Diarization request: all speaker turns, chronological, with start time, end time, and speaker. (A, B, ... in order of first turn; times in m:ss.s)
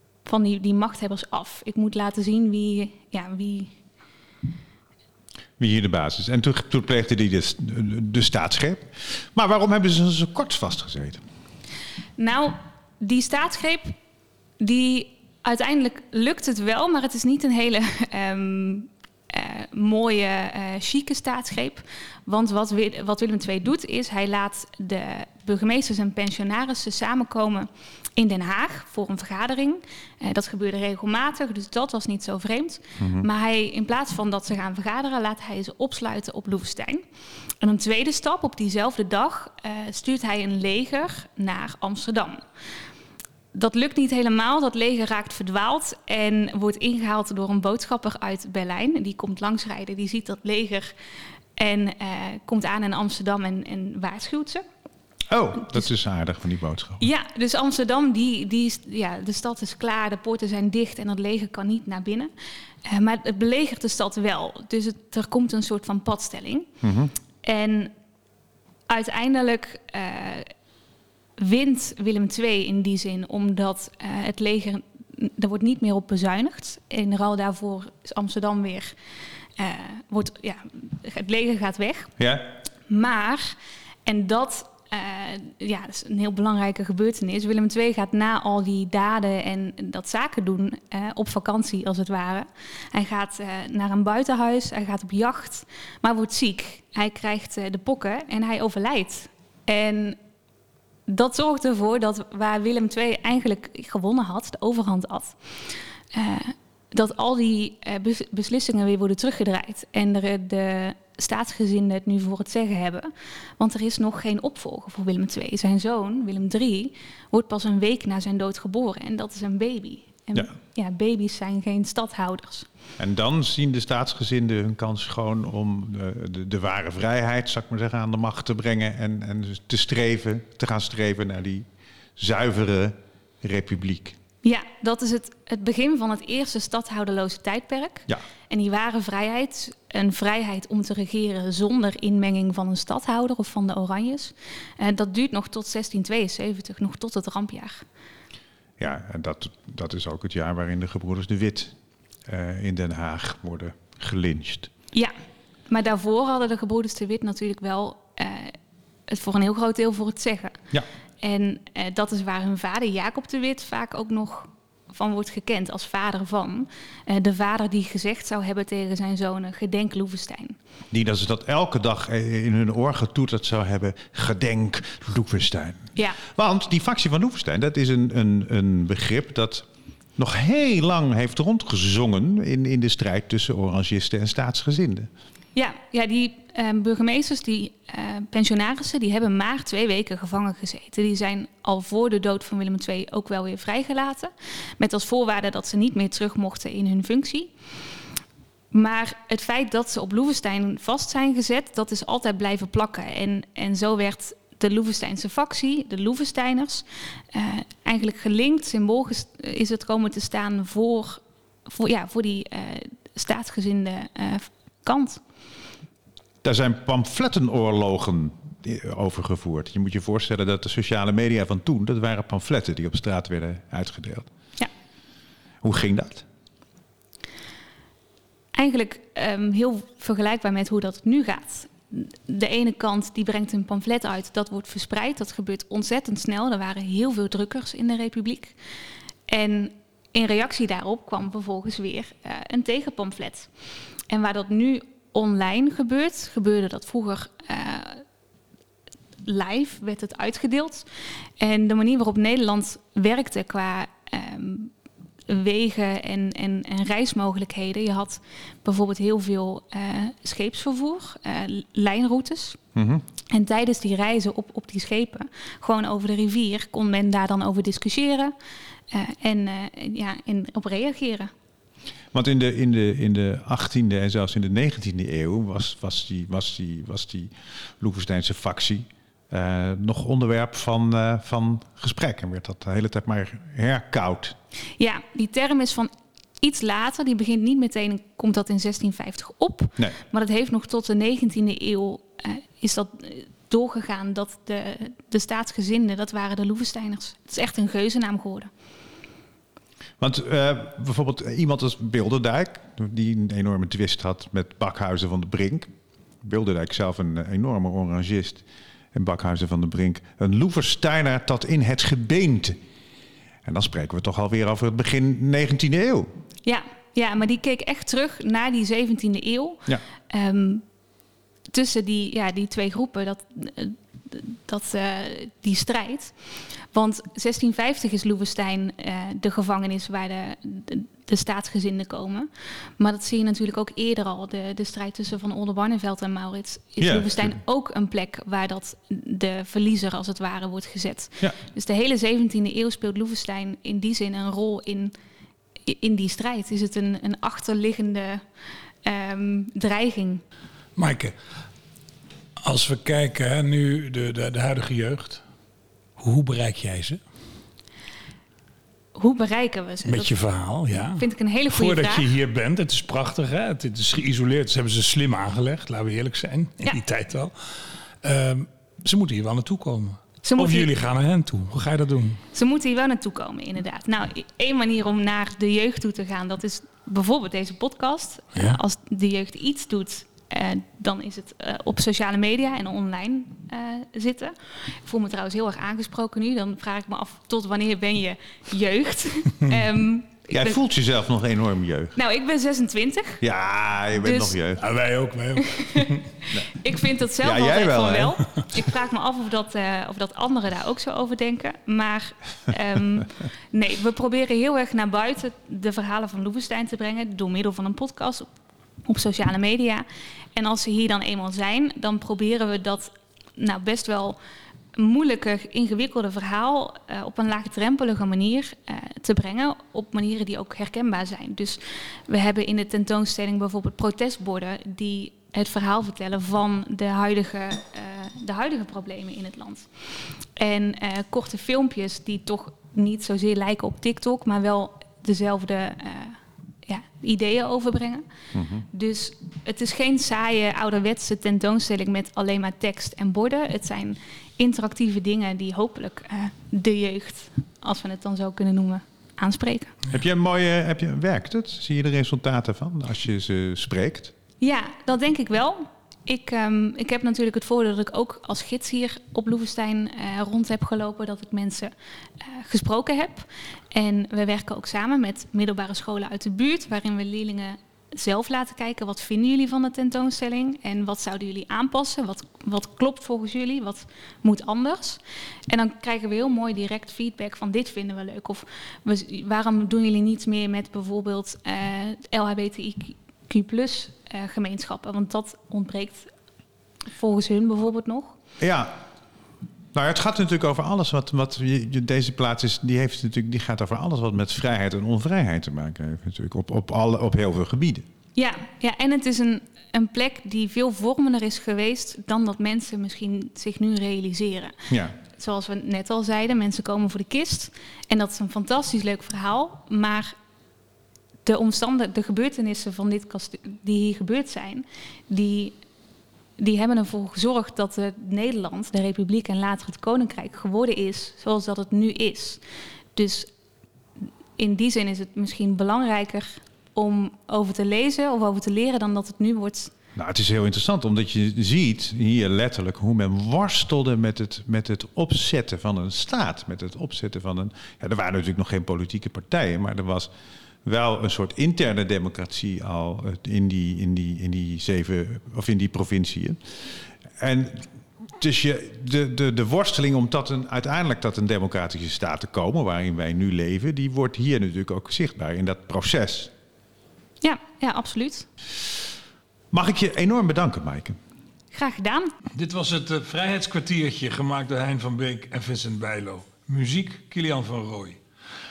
0:00.2-0:03.7 A
0:05.6-0:11.2 B
0:12.2-0:13.9 A
0:14.6-0:37.0 A
0:33.0-0:33.3 B
0:37.6-0:42.4 A
0:43.5-0:50.9 A
0:51.6-0:54.6 A
0:55.3-0:57.0 B
0:57.0-1:02.3 A
1:02.8-1:06.7 A
1:06.8-1:07.1 B
1:07.4-1:07.9 A
1:08.9-1:10.5 A
1:11.4-1:19.0 A
1:19.6-1:22.1 A
1:22.2-1:22.5 B
1:22.9-1:40.2 A
1:41.1-1:45.4 A
1:46.1-2:02.7 A
2:03.0-2:11.6 B
2:12.2-2:14.2 B
2:14.4-2:27.8 A
2:28.8-2:31.7 B
2:32.3-2:34.7 B
2:35.7-2:38.6 A
2:39.1-2:40.6 A
2:41.2-2:50.6 A
2:50.9-2:59.6 B
2:56.0-2:56.2 A
3:00.2-3:05.1 B
3:05.5-3:17.5 A
3:18.7-3:35.2 A
3:36.4-3:44.3 B
3:45.6-3:46.2 B
3:48.5-3:58.6 A
3:59.3-4:03.5 A
4:04.1-4:08.0 A
4:09.2-4:10.9 A
4:11.4-4:14.7 A
4:15.3-4:22.6 A
4:22.8-4:23.0 B
4:23.3-4:28.3 A
4:28.9-4:31.3 A
4:32.1-4:44.3 B
4:44.8-4:58.5 A
5:00.0-5:05.7 B
5:06.2-5:12.6 B
5:13.4-5:16.1 B
5:16.4-5:20.6 A
5:21.5-5:26.2 A
5:26.7-5:44.9 A
5:36.8-5:37.3 B
5:45.6-5:48.2 A
5:48.8-5:50.2 A
5:50.8-5:51.1 C
5:52.4-5:55.2 C
5:56.0-5:57.0 C
5:59.0-6:00.2 A
5:59.8-6:07.3 C
6:01.0-6:02.1 A
6:08.0-6:12.2 C
6:10.2-6:10.7 A
6:12.3-6:30.6 A
6:18.3-6:18.6 C
6:30.3-6:32.0 B
6:31.9-6:33.2 A
6:33.2-6:34.6 B
6:33.9-6:34.4 A
6:34.6-6:36.0 C
6:35.4-6:48.3 A
6:37.2-6:38.2 B
6:48.8-6:54.2 A
6:54.8-7:09.7 A
7:10.4-7:18.0 A
7:18.3-7:18.6 B
7:18.7-7:29.8 A
7:29.9-7:34.1 B
7:34.4-8:06.1 A
8:06.9-8:08.1 A
8:08.4-8:08.7 B
8:09.7-8:17.8 B
8:18.1-8:30.1 A
8:24.7-8:24.9 B
8:31.2-8:35.6 A
8:36.4-8:42.4 A
8:42.9-8:43.3 A
8:44.4-8:49.7 A
8:50.0-9:00.1 B
9:00.6-9:06.4 B
9:07.2-9:07.6 B
9:08.2-9:16.3 B
9:17.2-9:18.3 A
9:19.5-9:21.0 B
9:21.5-9:22.1 A
9:22.3-9:28.0 C